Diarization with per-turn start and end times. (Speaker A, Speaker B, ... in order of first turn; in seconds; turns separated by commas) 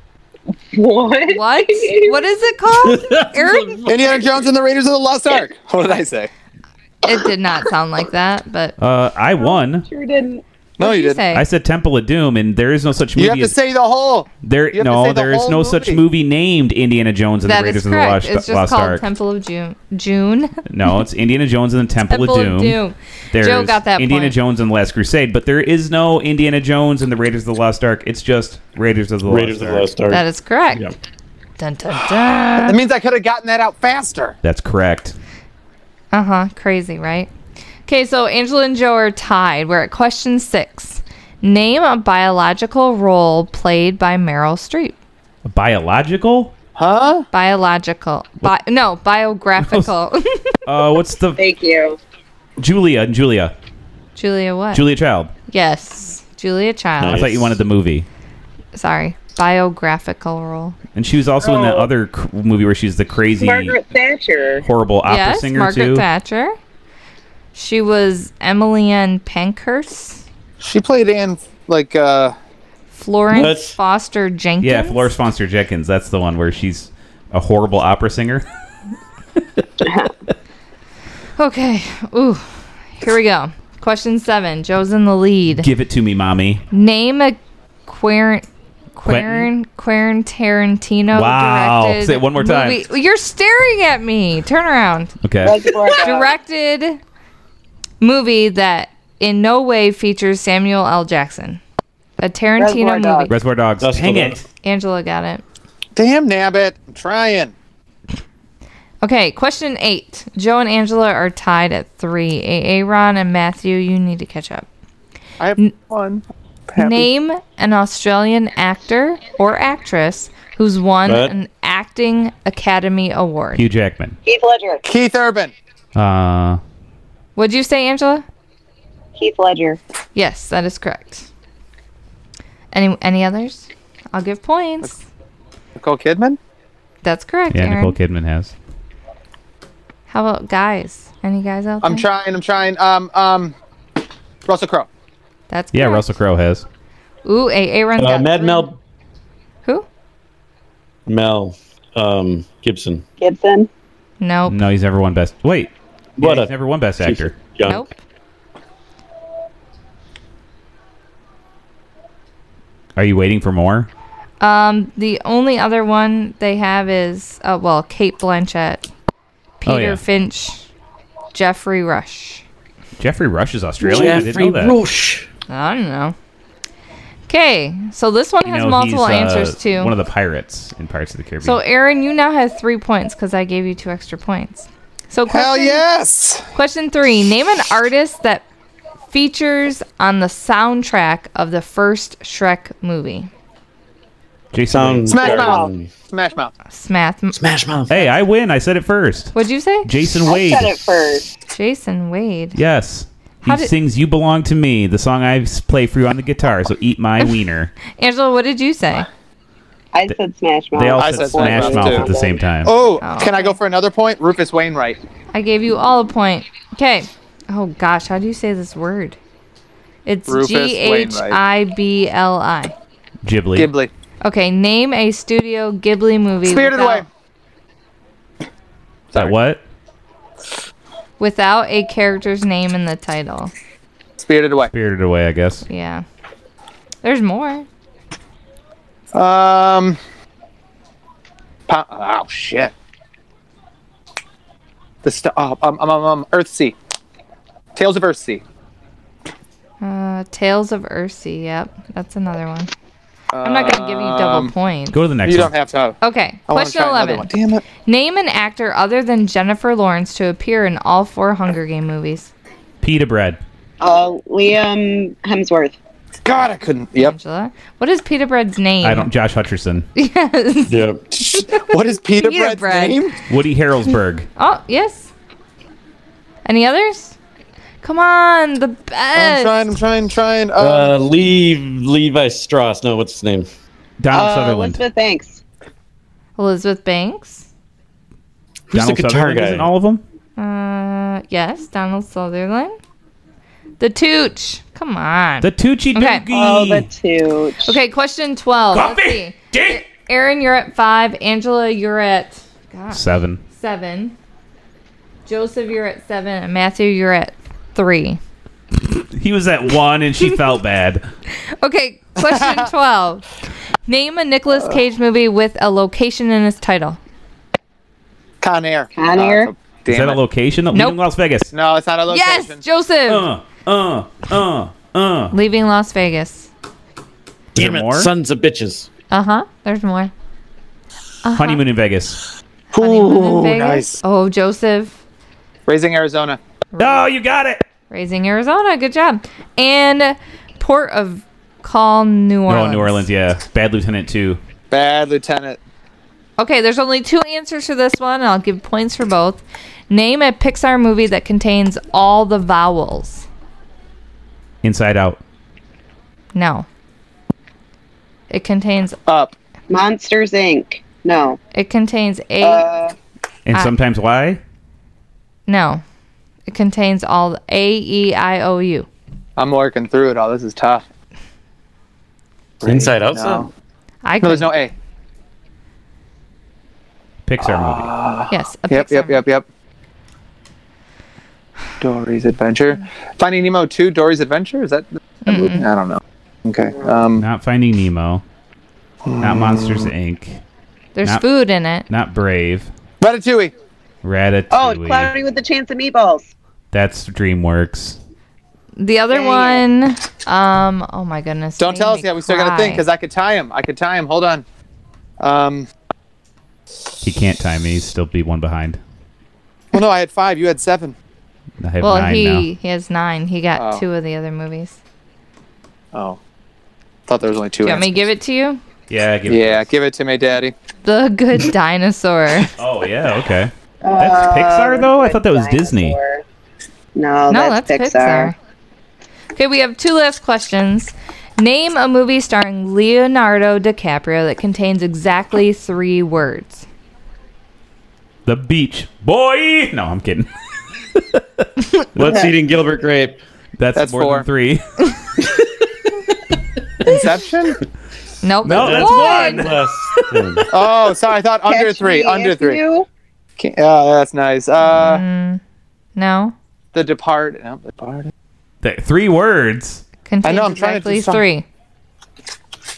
Speaker A: 0.7-2.3, Speaker B: 1.3-3.9, Speaker C: 2.8-4.4, Speaker D: 3.9-6.3, Speaker B: 7.0-8.8, Speaker E: 8.8-9.9, Speaker A: 9.4-10.4, Speaker D: 10.8-11.2, Speaker B: 10.8-11.4, Speaker E: 11.3-13.6, Speaker D: 13.2-16.0, Speaker E: 14.4-19.1, Speaker B: 17.4-20.6, Speaker E: 20.6-22.8, Speaker B: 22.1-24.3, Speaker E: 23.3-29.9, Speaker C: 29.3-30.9, Speaker B: 30.1-30.9, Speaker B: 31.6-32.8, Speaker D: 31.9-34.4, Speaker E: 34.4-35.1, Speaker B: 36.1-37.3, Speaker B: 37.9-45.0, Speaker E: 45.4-46.5, Speaker D: 46.8-47.3, Speaker B: 47.3-50.5, Speaker E: 49.6-49.9, Speaker E: 50.6-51.4, Speaker A: 51.4-52.0, Speaker E: 52.6-53.5, Speaker B: 54.1-54.9, Speaker E: 54.7-55.3, Speaker B: 55.5-57.2, Speaker C: 57.0-57.6, Speaker E: 57.0-58.1, Speaker B: 58.7-60.8, Speaker E: 60.9-63.8, Speaker A: 61.4-61.9, Speaker A: 63.4-64.6, Speaker E: 64.6-66.0, Speaker B: 65.0-66.5, Speaker B: 67.5-70.2, Speaker D: 70.6-72.3, Speaker B: 72.9-75.1, Speaker C: 73.3-73.8, Speaker E: 74.6-78.4, Speaker A: 79.8-80.1, Speaker B: 81.4-85.7, Speaker E: 85.5-86.6, Speaker B: 86.7-95.1, Speaker E: 89.0-89.5, Speaker E: 91.1-92.8, Speaker E: 95.2-95.6, Speaker A: 95.4-96.3, Speaker B: 96.0-97.0, Speaker B: 98.0-101.6, Speaker B: 102.2-103.4, Speaker A: 102.6-103.3, Speaker E: 103.3-104.4, Speaker C: 103.8-104.4, Speaker B: 104.6-105.4, Speaker D: 106.0-107.5, Speaker B: 109.0-114.7, Speaker D: 115.4-117.1, Speaker B: 116.8-123.6, Speaker C: 121.0-121.3, Speaker E: 123.5-124.2, Speaker A: 124.2-124.8, Speaker D: 124.8-125.5, Speaker E: 126.0-126.6, Speaker B: 127.3-128.2, Speaker A: 129.2-129.8, Speaker B: 130.1-131.3, Speaker B: 132.7-135.0, Speaker D: 135.8-136.4, Speaker B: 137.0-138.0, Speaker E: 137.5-138.5, Speaker B: 140.1-142.1, Speaker D: 141.8-143.5, Speaker D: 144.4-144.9, Speaker B: 145.5-146.0, Speaker E: 145.7-146.7, Speaker B: 147.2-148.7, Speaker C: 148.0-148.8, Speaker C: 151.1-153.0, Speaker A: 153.2-153.7, Speaker B: 154.2-154.6, Speaker E: 154.5-157.3, Speaker C: 156.2-157.8, Speaker B: 157.6-157.9, Speaker E: 162.9-163.9, Speaker B: 164.4-168.9, Speaker B: 169.6-170.7, Speaker E: 169.6-170.0, Speaker B: 171.3-172.4, Speaker E: 173.0-174.8, Speaker C: 173.8-175.3, Speaker B: 175.5-176.1, Speaker B: 177.3-179.9, Speaker E: 178.4-181.6, Speaker B: 181.4-185.8, Speaker D: 185.3-186.5, Speaker B: 186.5-188.4, Speaker B: 189.1-193.3, Speaker E: 194.5-195.3, Speaker C: 194.7-195.9, Speaker D: 195.1-196.5, Speaker A: 195.2-195.7, Speaker B: 196.7-197.4, Speaker C: 197.3-197.9, Speaker E: 197.9-200.9, Speaker B: 199.3-199.9, Speaker A: 200.2-201.3, Speaker B: 201.5-202.6, Speaker E: 202.6-207.7, Speaker B: 203.4-203.7, Speaker B: 207.9-209.1, Speaker A: 209.9-212.4, Speaker E: 210.7-212.7, Speaker D: 210.9-215.0, Speaker B: 213.0-213.6, Speaker B: 215.3-219.2, Speaker B: 220.1-222.7, Speaker D: 220.3-221.4, Speaker E: 223.2-223.7, Speaker D: 223.6-223.9, Speaker B: 224.2-227.0, Speaker D: 226.4-227.0, Speaker E: 229.1-229.6, Speaker B: 231.2-233.5, Speaker D: 234.2-234.7, Speaker E: 234.7-235.6, Speaker B: 235.7-236.0, Speaker B: 237.0-237.7, Speaker D: 239.1-240.0, Speaker D: 241.7-242.7, Speaker D: 245.0-246.8, Speaker D: 247.8-248.4, Speaker B: 249.8-252.7, Speaker D: 253.3-254.5, Speaker B: 253.4-255.0, Speaker E: 254.9-255.5, Speaker D: 255.2-256.0, Speaker B: 256.0-262.3, Speaker D: 256.5-257.6, Speaker E: 262.8-263.4, Speaker A: 263.8-265.8, Speaker D: 266.2-267.1, Speaker B: 266.9-269.1, Speaker E: 268.8-269.9, Speaker B: 269.9-270.8, Speaker C: 270.7-271.0, Speaker D: 271.1-273.1, Speaker B: 271.5-273.1, Speaker E: 273.3-274.3, Speaker B: 274.4-275.1, Speaker B: 276.4-277.1, Speaker B: 277.8-279.6, Speaker D: 279.1-280.9, Speaker C: 280.6-283.5, Speaker E: 284.0-284.8, Speaker A: 284.1-285.4, Speaker B: 286.4-287.5, Speaker C: 288.7-289.7, Speaker E: 288.7-290.0, Speaker B: 290.4-292.8, Speaker B: 293.8-296.3, Speaker E: 295.4-296.9, Speaker A: 296.3-297.8, Speaker B: 297.6-304.1, Speaker E: 298.7-299.8, Speaker E: 302.9-303.4, Speaker B: 305.2-308.2, Speaker E: 308.8-311.0, Speaker B: 311.6-313.2, Speaker D: 312.2-312.6, Speaker B: 313.9-317.0, Speaker D: 318.4-320.2, Speaker A: 318.9-319.5, Speaker E: 319.9-321.5, Speaker B: 320.7-321.0, Speaker D: 321.5-322.6, Speaker B: 322.1-323.3, Speaker E: 323.1-325.3, Speaker B: 325.3-326.5, Speaker C: 327.5-328.9, Speaker E: 327.6-328.1, Speaker B: 329.1-330.1, Speaker B: 331.2-331.6, Speaker E: 331.3-332.2, Speaker D: 332.7-334.0, Speaker B: 332.8-335.0, Speaker D: 335.7-336.4, Speaker B: 336.7-337.0, Speaker E: 336.8-337.6, Speaker B: 337.9-343.0, Speaker E: 342.5-344.4, Speaker D: 344.7-345.6, Speaker B: 346.4-353.2, Speaker E: 354.6-355.2, Speaker B: 356.3-356.7, Speaker B: 358.3-359.0, Speaker D: 359.1-359.3, Speaker A: 359.7-361.4, Speaker B: 361.5-362.6, Speaker A: 362.4-362.9, Speaker E: 363.4-364.4, Speaker B: 365.5-365.8, Speaker B: 366.4-368.9, Speaker D: 369.4-370.8, Speaker D: 372.6-373.5, Speaker C: 372.6-373.5, Speaker B: 374.0-374.5, Speaker D: 374.2-374.7, Speaker E: 377.2-377.9, Speaker D: 377.4-379.4, Speaker B: 378.3-379.2, Speaker D: 381.8-387.2, Speaker B: 385.2-385.7, Speaker E: 387.2-388.2, Speaker D: 389.0-389.9, Speaker E: 389.2-390.4, Speaker B: 390.9-391.9, Speaker E: 391.9-392.7, Speaker D: 393.0-393.5, Speaker E: 394.0-395.1, Speaker A: 394.5-396.3, Speaker E: 396.7-398.0, Speaker B: 398.8-402.8, Speaker A: 399.1-399.6, Speaker D: 401.6-404.4, Speaker D: 405.2-405.7, Speaker E: 407.0-408.8, Speaker D: 409.7-410.9, Speaker E: 411.6-412.5, Speaker B: 411.8-414.8, Speaker D: 413.6-413.8, Speaker D: 415.9-416.2, Speaker D: 417.1-418.1, Speaker B: 417.6-418.6, Speaker E: 418.9-419.7, Speaker D: 419.3-420.5, Speaker B: 420.8-422.5, Speaker E: 422.6-426.0, Speaker A: 423.8-426.2, Speaker A: 426.9-428.3, Speaker B: 427.3-428.4, Speaker B: 429.3-436.6, Speaker E: 438.2-440.3, Speaker E: 440.9-442.3, Speaker C: 441.9-443.2, Speaker E: 443.6-444.8, Speaker D: 443.8-444.2, Speaker D: 446.8-447.6, Speaker B: 448.2-449.5, Speaker E: 448.4-449.5, Speaker C: 448.5-450.5, Speaker D: 450.5-452.6, Speaker A: 451.4-452.9, Speaker D: 453.4-455.0, Speaker B: 454.6-455.4, Speaker B: 455.9-456.3, Speaker D: 456.7-458.1, Speaker E: 458.6-459.8, Speaker B: 460.0-461.4, Speaker D: 460.2-461.2